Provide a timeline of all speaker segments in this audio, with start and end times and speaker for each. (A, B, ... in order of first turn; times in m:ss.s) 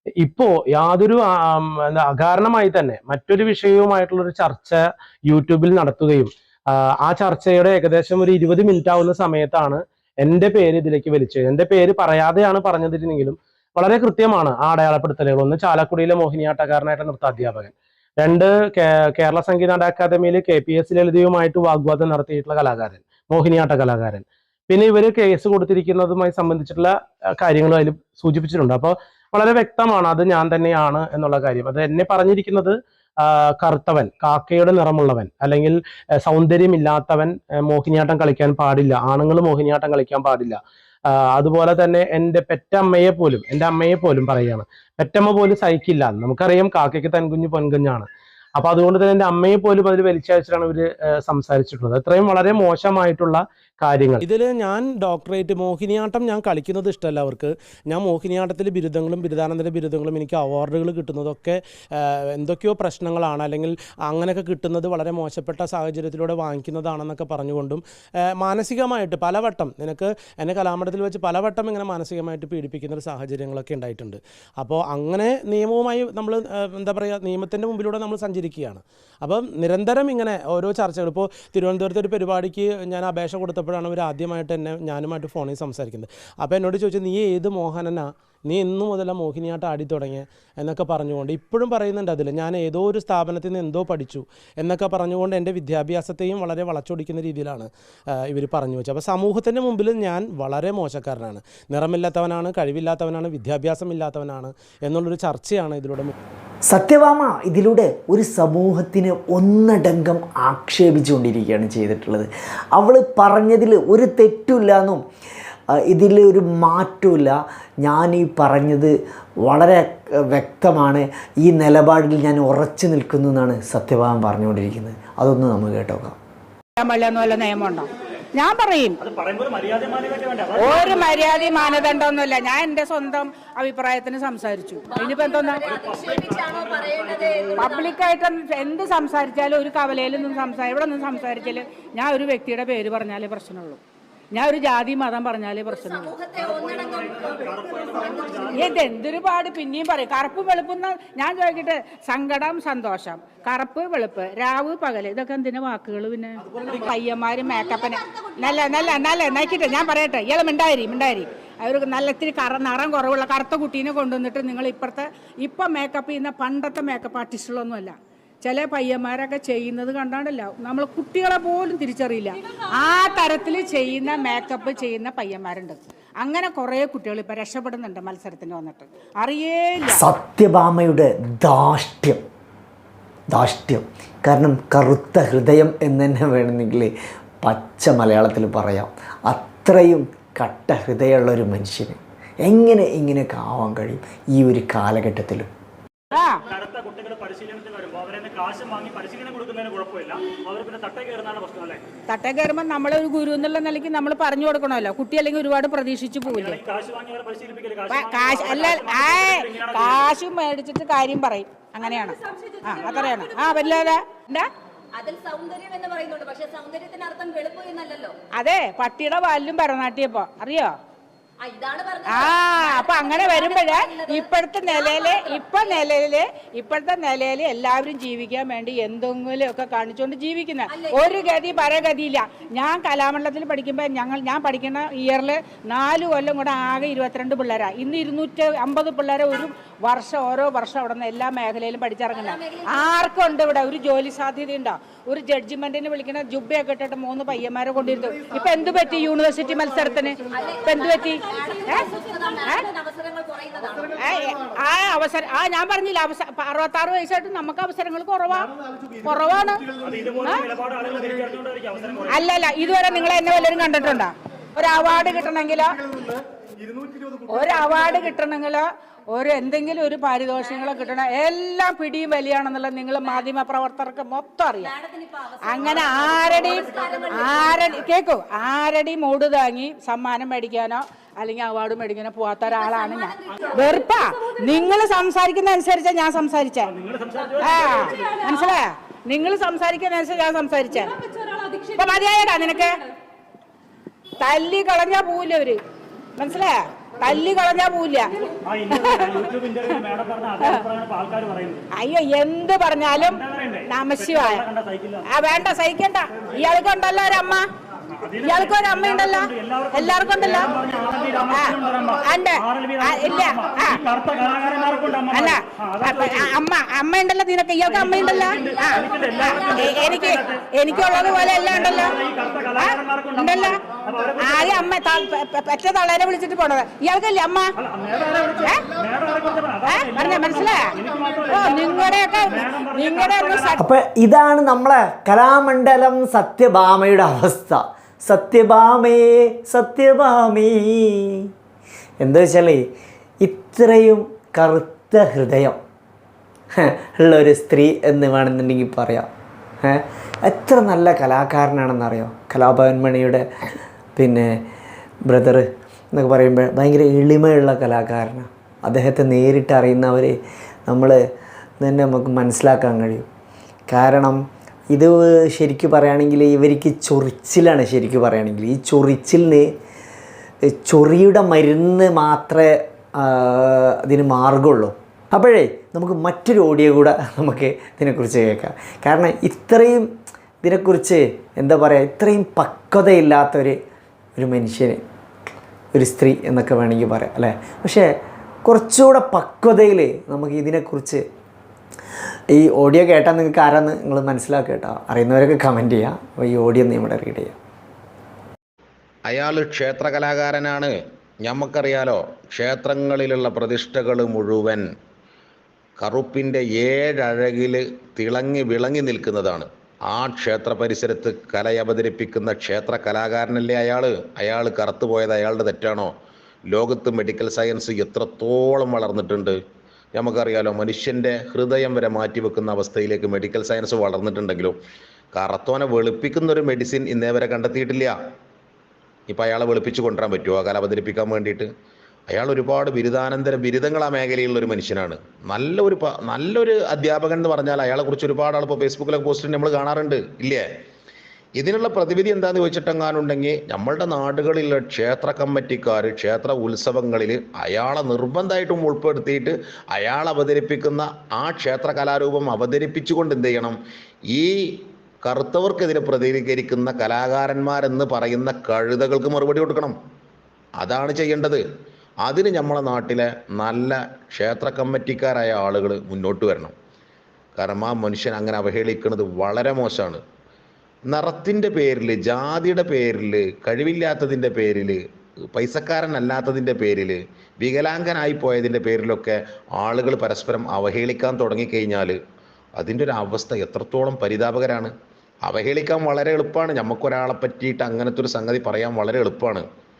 0:00.2-1:07.8 A
1:08.3-1:46.1 A
1:46.7-1:55.0 B
1:55.8-1:58.9 B
1:59.4-2:06.2 B
2:06.8-2:09.0 C
2:09.0-2:11.5 D
2:10.6-2:15.7 C
2:14.9-2:17.9 E
2:15.6-2:17.6 D
2:17.6-2:23.8 C
2:24.3-2:26.2 C
2:25.8-2:27.5 E
2:26.4-2:28.8 D
2:28.5-3:00.0 C
2:37.4-2:40.0 E
2:59.9-3:02.2 B
3:03.3-3:15.5 B
3:16.1-3:16.4 C
3:16.5-3:21.8 D
3:22.1-3:26.6 C
3:26.3-3:30.0 D
3:27.9-3:34.5 C
3:31.8-3:33.9 E
3:35.0-3:38.2 E
3:38.3-3:40.7 C
3:41.4-3:45.4 E
3:42.0-4:12.7 C
3:50.7-3:51.0 E
4:02.1-4:03.0 E
4:10.3-4:13.9 E
4:13.8-4:18.5 C
4:19.0-4:19.6 C
4:19.8-4:22.3 D
4:22.1-4:25.8 C
4:27.3-4:34.7 C
4:34.6-4:37.8 E
4:35.4-4:46.7 C
4:42.5-4:43.6 E
4:46.7-4:48.1 D
4:47.4-4:50.9 C
4:51.6-4:52.7 C
4:54.2-4:55.6 C
4:56.2-4:59.8 C
4:58.4-5:01.6 D
5:01.7-5:04.4 C
5:03.0-5:05.0 D
5:05.0-5:07.4 C
5:08.0-5:16.4 D
5:08.2-5:10.6 C
5:11.2-5:13.8 C
5:15.1-5:18.8 C
5:17.7-5:24.7 D
5:18.1-5:19.9 E
5:19.5-5:22.0 C
5:22.5-5:23.6 C
5:24.2-5:27.5 C
5:27.6-5:33.5 D
5:29.6-5:33.6 C
5:33.6-5:41.3 B
5:42.0-5:42.6 B
5:43.2-5:45.6 B
5:46.6-5:49.1 B
5:49.6-5:53.2 B
5:54.0-5:54.4 B
5:55.1-6:00.1 B
6:00.7-6:01.0 B
6:01.6-6:03.0 B
6:03.7-6:09.5 B
6:10.5-6:19.9 B
6:20.4-6:23.6 B
6:24.2-6:24.8 B
6:25.7-6:27.9 B
6:28.4-6:31.0 B
6:32.3-6:37.4 B
6:39.1-6:44.6 F
6:45.8-6:55.9 F
6:56.5-6:59.4 F
6:59.9-7:04.6 F
7:05.1-7:07.9 F
7:09.1-7:11.5 F
7:12.1-7:20.4 F
7:21.4-7:33.6 F
7:35.0-7:39.7 F
7:40.6-7:41.4 F
7:42.0-7:46.5 F
7:47.4-7:50.0 F
7:50.9-7:54.8 F
7:55.3-8:02.0 F
8:02.6-8:04.7 F
8:05.2-8:09.4 F